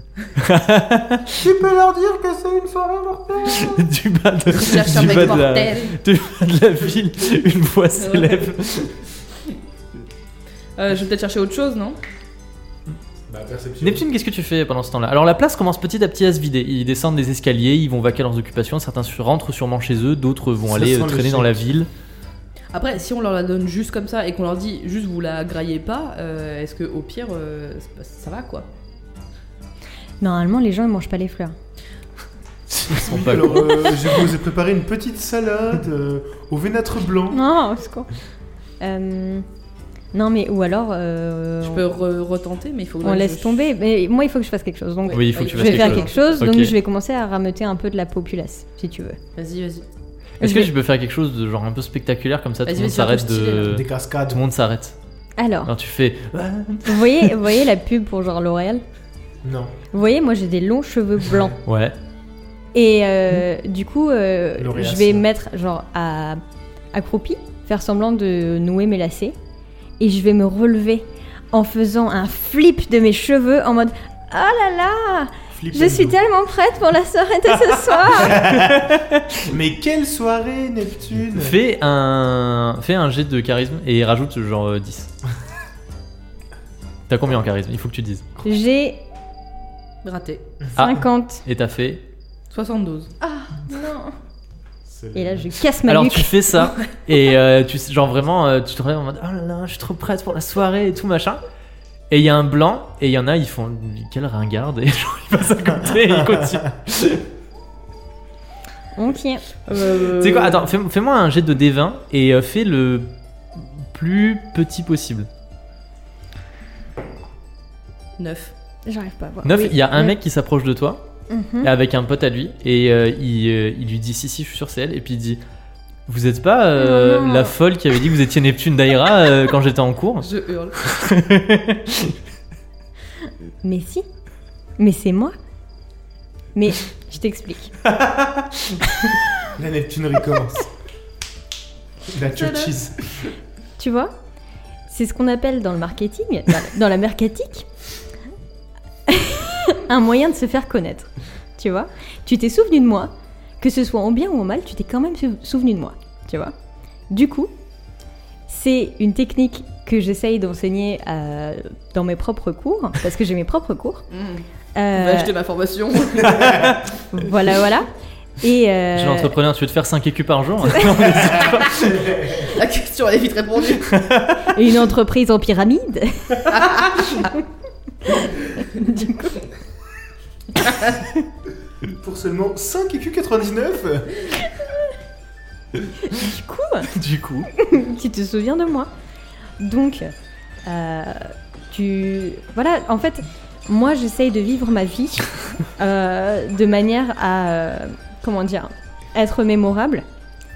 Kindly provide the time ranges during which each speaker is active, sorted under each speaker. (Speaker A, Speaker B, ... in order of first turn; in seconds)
Speaker A: 0.4-1.5, 3.5-8.9, 13.8-21.9, 32.7-34.0, 45.1-46.7, 50.4-55.0, 55.7-57.4, 61.7-62.0, 78.2-79.5, 81.3-85.1, 87.1-88.2, 90.8-92.0, 95.8-101.4, 102.1-107.2, 109.8-115.3, 119.4-121.0, 121.6-125.4, 126.1-132.2, 137.9-138.8, 166.3-166.8, 168.9-172.1, 173.9-174.5, 186.9-187.5
Speaker B: 1.4-3.8, 4.9-5.5, 13.3-14.1, 20.7-21.7, 32.9-37.4, 53.7-54.4, 59.4-59.8, 64.6-65.2, 75.5-76.2, 78.1-78.9, 79.5-81.6, 94.9-95.6, 139.6-140.7, 142.1-143.2, 171.3-172.4, 181.8-184.3
Speaker C: 4.5-6.0, 8.0-8.5, 10.8-12.0, 22.7-28.7, 41.6-43.7, 45.0-46.4, 49.4-49.9, 52.7-53.8, 90.0-90.4, 92.5-93.1, 109.7-110.8, 118.2-118.5, 130.2-130.8, 142.3-142.7, 164.1-166.7, 172.3-174.0, 176.4-177.3
Speaker D: 30.2-31.6, 37.3-38.1, 38.8-39.5, 40.1-41.8, 43.0-49.2, 50.4-50.7, 55.4-55.7, 56.9-58.8, 59.9-61.6, 62.7-66.4, 66.9-69.4, 70.0-78.5, 88.4-89.0, 90.8-91.4, 93.2-94.1, 95.1-96.3, 109.0-109.4, 118.9-120.2, 121.3-121.7, 126.8-127.5, 133.6-134.1, 134.8-135.3, 136.6-137.8, 143.8-144.1, 144.9-147.7, 149.1-156.5, 157.1-157.5, 158.5-164.1, 164.8-165.3, 167.1-167.9, 168.4-169.3, 174.5-176.5, 178.6-179.4, 186.0-186.9, 187.5-188.9, 189.6-190.1, 190.7-200.1